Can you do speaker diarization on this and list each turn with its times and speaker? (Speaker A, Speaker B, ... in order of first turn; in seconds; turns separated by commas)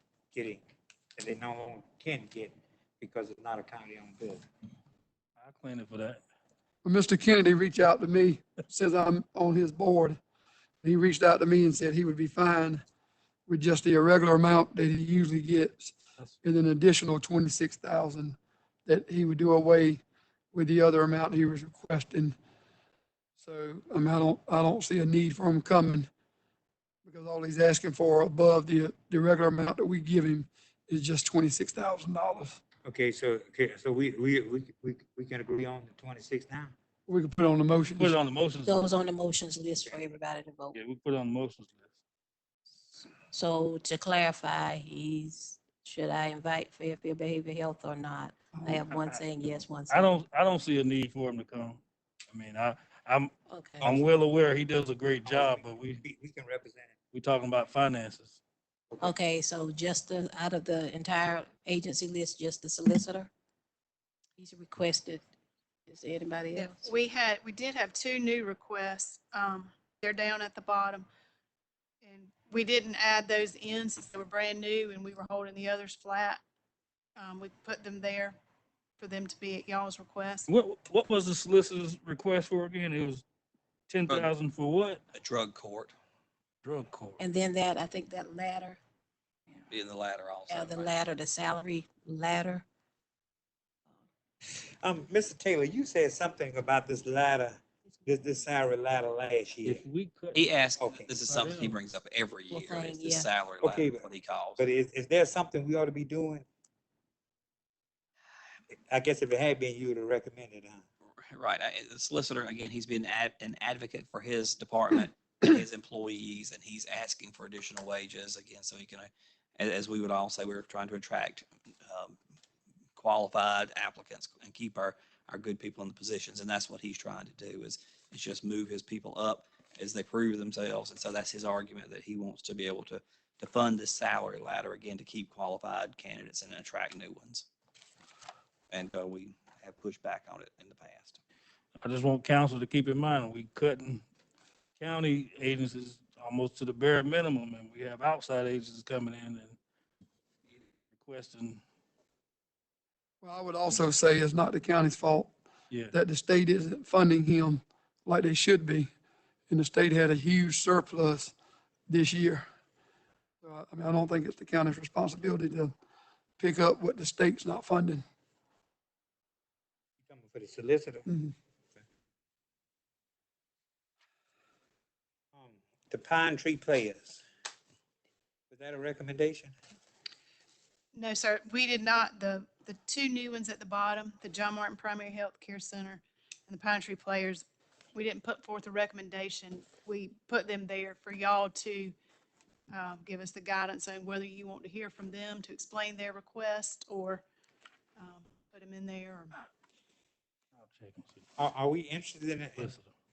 Speaker A: 0.3-0.6, Speaker A: 1.2-4.5, Speaker B: 5.4-6.2, Speaker C: 6.8-10.2, Speaker C: 10.8-12.8, Speaker C: 13.5-20.0, Speaker C: 20.5-22.4, Speaker C: 23.4-26.1, Speaker C: 27.1-32.6, Speaker A: 32.9-36.8, Speaker C: 37.1-38.2, Speaker B: 38.0-38.8, Speaker D: 38.7-40.8, Speaker A: 39.9-40.2, Speaker B: 40.7-41.9, Speaker D: 42.9-50.1, Speaker C: 48.5-48.9, Speaker B: 49.9-56.0, Speaker D: 53.5-53.9, Speaker A: 53.8-54.1, Speaker A: 55.3-57.0, Speaker B: 57.1-58.4, Speaker D: 59.0-63.3, Speaker D: 64.4-65.2, Speaker D: 65.9-67.0, Speaker E: 66.5-71.1, Speaker E: 72.0-76.4, Speaker E: 77.2-78.4, Speaker E: 79.0-80.5, Speaker B: 80.5-83.2, Speaker B: 83.9-85.0, Speaker F: 85.1-85.9, Speaker B: 86.6-87.2, Speaker D: 87.2-88.8, Speaker F: 89.7-91.0, Speaker D: 90.5-92.7, Speaker A: 94.8-99.8, Speaker B: 99.7-100.4, Speaker F: 100.3-104.7, Speaker A: 100.8-101.1, Speaker B: 101.3-101.8, Speaker D: 102.5-103.3, Speaker A: 103.6-104.0, Speaker A: 104.6-106.5, Speaker A: 108.7-110.8, Speaker F: 111.3-122.2, Speaker F: 123.0-137.5, Speaker F: 138.7-141.2, Speaker B: 141.8-144.0, Speaker B: 144.8-149.6, Speaker B: 150.9-151.6, Speaker C: 153.2-155.3, Speaker C: 155.9-158.9, Speaker C: 159.5-161.3, Speaker C: 161.9-162.4, Speaker C: 163.4-165.7, Speaker C: 166.4-168.0, Speaker A: 170.0-171.1, Speaker C: 171.1-171.3, Speaker A: 175.3-177.2, Speaker A: 178.5-179.6, Speaker E: 180.9-191.9, Speaker E: 192.7-197.2, Speaker E: 198.0-199.4, Speaker B: 200.6-201.2, Speaker A: 201.4-202.7, Speaker B: 202.6-202.9